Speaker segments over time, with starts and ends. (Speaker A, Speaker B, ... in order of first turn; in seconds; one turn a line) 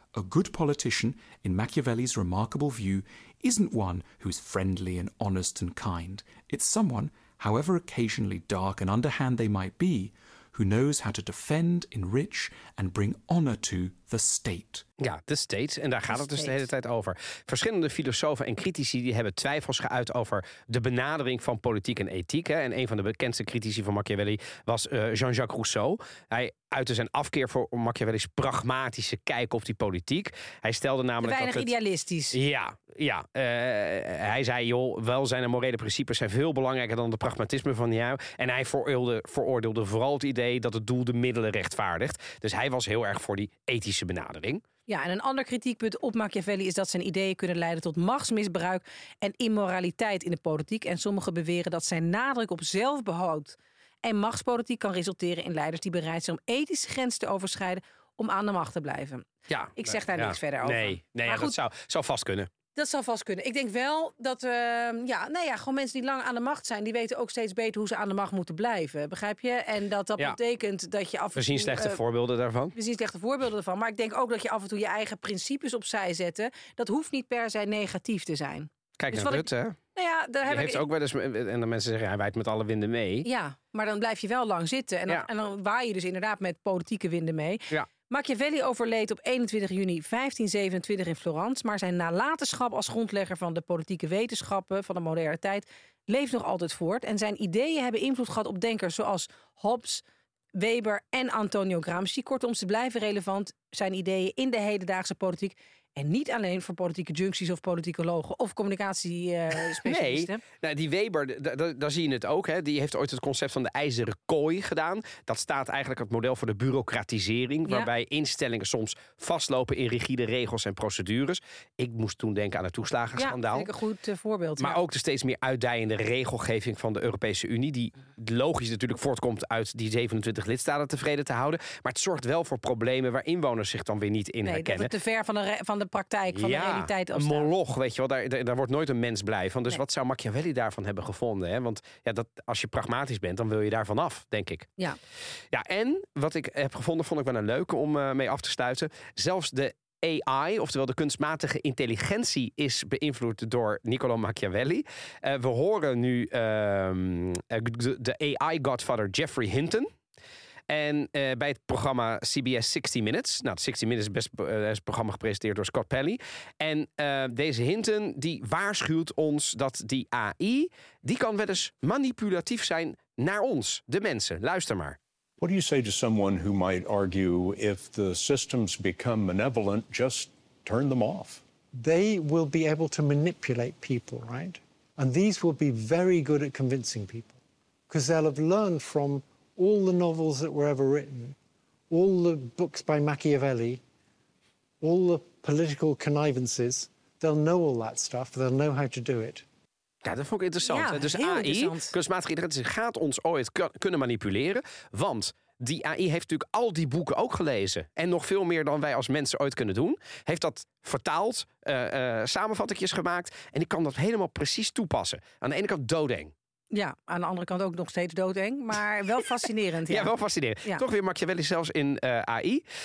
Speaker A: 0.1-14.8
Speaker B: 15.0-31.7
Speaker C: 16.1-16.6
Speaker C: 31.2-32.4
Speaker B: 32.3-44.6
Speaker C: 44.9-61.6
Speaker B: 59.5-62.5
Speaker C: 62.7-72.0
Speaker B: 71.3-72.7
Speaker C: 72.7-80.8
Speaker B: 79.0-79.8
Speaker B: 80.5-83.3
Speaker C: 83.2-100.0
Speaker C: 100.5-110.4
Speaker B: 109.7-123.7
Speaker C: 123.2-124.8
Speaker B: 124.6-134.9
Speaker C: 134.4-137.5
Speaker B: 136.3-144.7
Speaker B: 145.5-159.9
Speaker B: 160.7-175.0
Speaker D: 175.4-181.4
Speaker E: 181.8-191.3
Speaker E: 191.9-193.8
Speaker E: 194.8-199.4
Speaker B: 200.0-216.3
Speaker C: 200.6-201.9
Speaker C: 216.7-220.1
Speaker B: 219.9-222.7